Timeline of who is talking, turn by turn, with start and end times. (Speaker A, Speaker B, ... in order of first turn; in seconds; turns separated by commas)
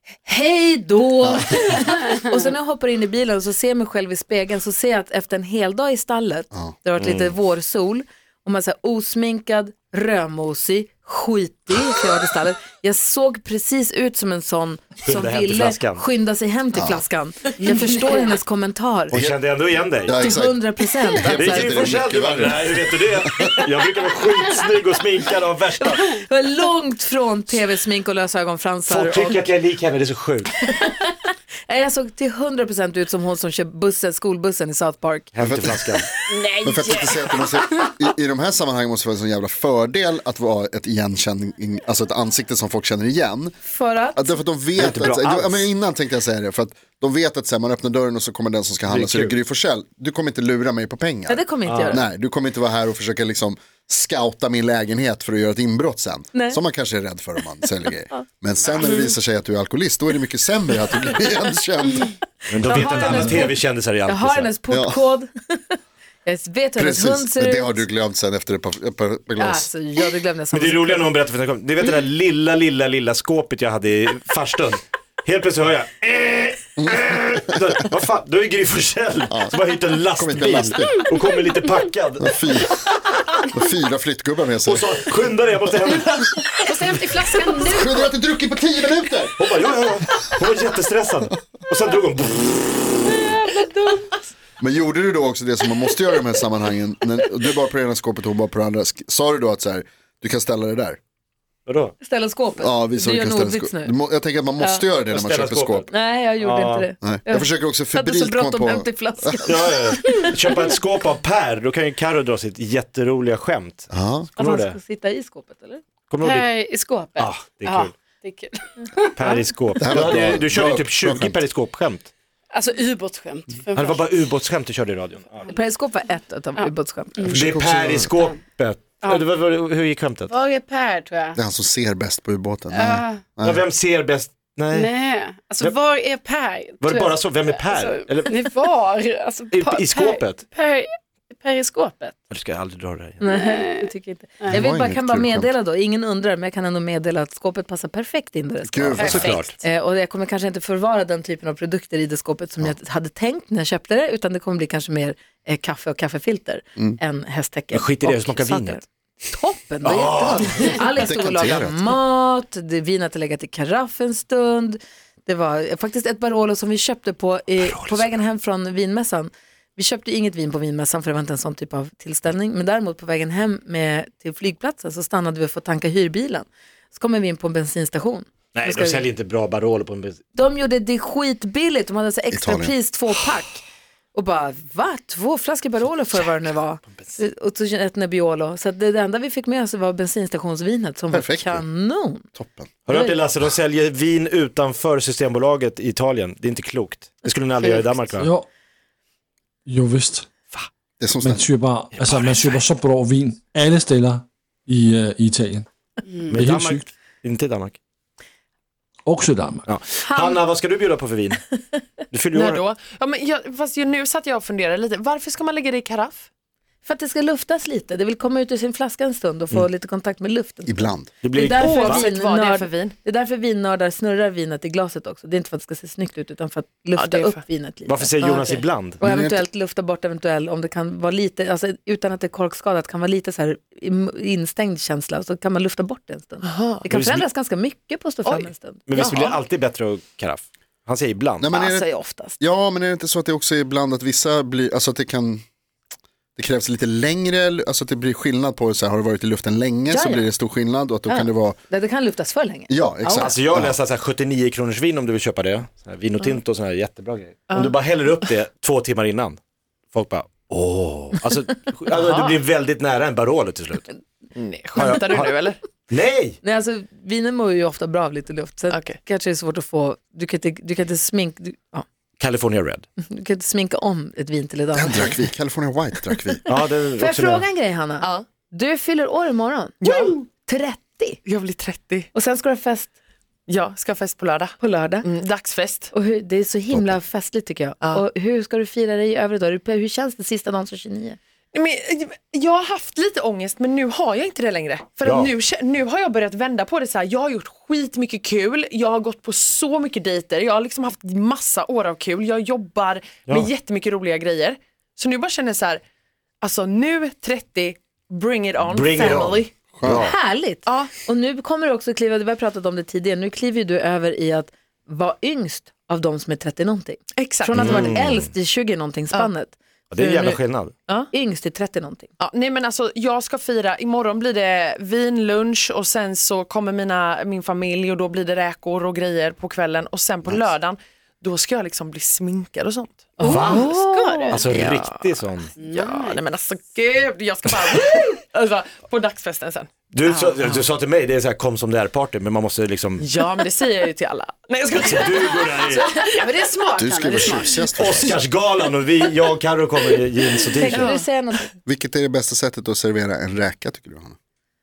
Speaker A: 0.2-19.1, Speaker B: 7.0-7.3, Speaker B: 15.0-16.0, Speaker C: 16.7-17.0, Speaker B: 19.1-20.1, Speaker C: 19.1-19.4, Speaker C: 20.1-23.5, Speaker A: 20.1-22.0, Speaker B: 21.3-26.2, Speaker A: 25.8-29.5, Speaker B: 28.9-30.5, Speaker A: 30.6-35.9, Speaker B: 35.3-37.5, Speaker C: 35.4-36.1, Speaker D: 36.3-36.9, Speaker C: 36.6-43.5, Speaker A: 43.6-44.4, Speaker C: 44.1-62.1, Speaker B: 44.8-45.7, Speaker B: 48.9-49.4, Speaker A: 51.3-52.0, Speaker B: 51.7-52.0, Speaker A: 56.3-56.6, Speaker B: 62.5-64.5, Speaker A: 62.6-67.9, Speaker C: 64.7-65.0, Speaker C: 66.8-69.7, Speaker A: 69.4-71.1, Speaker B: 70.5-83.5, Speaker C: 76.8-77.0, Speaker C: 79.3-79.6, Speaker C: 80.1-81.0, Speaker C: 82.2-82.8, Speaker C: 83.5-85.0, Speaker B: 84.7-87.0, Speaker E: 86.7-88.0, Speaker C: 87.6-89.3, Speaker B: 89.3-92.8, Speaker A: 93.0-94.2, Speaker C: 94.6-101.0, Speaker B: 101.7-102.0, Speaker A: 102.0-103.9, Speaker C: 102.6-105.9, Speaker A: 104.6-104.8, Speaker B: 105.1-106.9, Speaker A: 105.9-110.5, Speaker C: 107.0-109.5, Speaker B: 109.5-114.8, Speaker C: 113.9-114.3, Speaker A: 114.4-115.8, Speaker B: 116.1-118.0, Speaker D: 116.2-119.3, Speaker B: 119.2-122.1, Speaker C: 119.8-121.3, Speaker D: 122.5-124.0, Speaker B: 123.7-125.5, Speaker A: 125.5-127.2, Speaker B: 127.2-130.4, Speaker C: 127.3-128.1, Speaker D: 130.3-131.4, Speaker C: 131.4-133.6, Speaker B: 132.8-135.8, Speaker D: 133.0-133.3, Speaker D: 134.7-142.2, Speaker B: 136.8-138.7, Speaker B: 139.5-140.5, Speaker B: 142.3-143.3, Speaker A: 143.2-179.1, Speaker D: 143.3-143.9, Speaker C: 144.5-145.5, Speaker C: 148.7-149.4, Speaker B: 148.9-149.6, Speaker B: 157.7-158.8, Speaker B: 159.8-160.9, Speaker C: 160.9-162.0, Speaker B: 167.6-168.1, Speaker B: 178.6-180.2, Speaker A: 180.3-183.6, Speaker C: 182.3-182.7, Speaker A: 184.1-192.3, Speaker C: 191.1-191.7, Speaker C: 192.3-192.7, Speaker B: 192.9-198.3, Speaker A: 192.9-193.2, Speaker F: 198.2-198.5, Speaker F: 199.7-200.3, Speaker C: 201.0-201.5, Speaker F: 201.2-205.7, Speaker B: 202.0-202.4, Speaker B: 206.3-207.8, Speaker F: 206.3-206.9, Speaker F: 209.1-209.7, Speaker B: 209.7-211.4, Speaker A: 210.0-210.4, Speaker B: 212.1-212.6, Speaker E: 212.3-216.3, Speaker A: 216.8-228.2, Speaker C: 220.7-221.1, Speaker B: 221.2-222.1, Speaker E: 221.4-222.9, Speaker E: 226.9-227.4, Speaker B: 227.9-229.0, Speaker E: 228.2-228.6, Speaker A: 229.0-239.3, Speaker C: 229.0-229.4, Speaker E: 236.4-236.9, Speaker B: 236.9-237.2, Speaker E: 238.2-239.4, Speaker B: 238.9-241.5, Speaker C: 241.4-245.4, Speaker A: 241.5-242.4, Speaker C: 246.4-251.6, Speaker A: 249.9-250.3, Speaker A: 251.1-253.4, Speaker C: 252.7-253.8, Speaker B: 253.2-259.4, Speaker E: 257.5-257.8, Speaker B: 259.9-263.9, Speaker E: 261.9-262.4, Speaker E: 264.4-265.6, Speaker B: 264.8-266.4, Speaker A: 266.4-271.9, Speaker E: 268.7-269.0, Speaker B: 272.2-272.9, Speaker A: 273.1-275.2, Speaker C: 274.8-276.4, Speaker B: 276.5-277.5, Speaker A: 277.0-281.2, Speaker E: 278.0-278.3, Speaker E: 279.8-280.3, Speaker E: 281.2-282.1, Speaker A: 282.1-282.9, Speaker E: 283.5-285.9, Speaker A: 284.6-285.1, Speaker A: 285.9-291.2, Speaker E: 291.5-305.8, Speaker B: 295.0-295.3, Speaker E: 306.4-309.6, Speaker B: 308.7-310.2, Speaker C: 309.1-310.1, Speaker A: 309.9-320.4, Speaker E: 310.6-310.9, Speaker E: 317.2-318.0, Speaker B: 317.5-318.3, Speaker B: 319.9-320.7, Speaker A: 321.1-322.1, Speaker E: 322.2-340.7, Speaker A: 333.2-334.4, Speaker B: 333.2-335.6, Speaker D: 333.9-334.3, Speaker D: 335.8-336.2, Speaker B: 339.9-343.4, Speaker E: 343.0-346.6, Speaker B: 344.7-345.9, Speaker D: 346.2-347.5, Speaker C: 346.8-348.2, Speaker B: 347.2-350.9, Speaker A: 350.5-351.5, Speaker E: 350.6-351.1, Speaker C: 351.7-354.2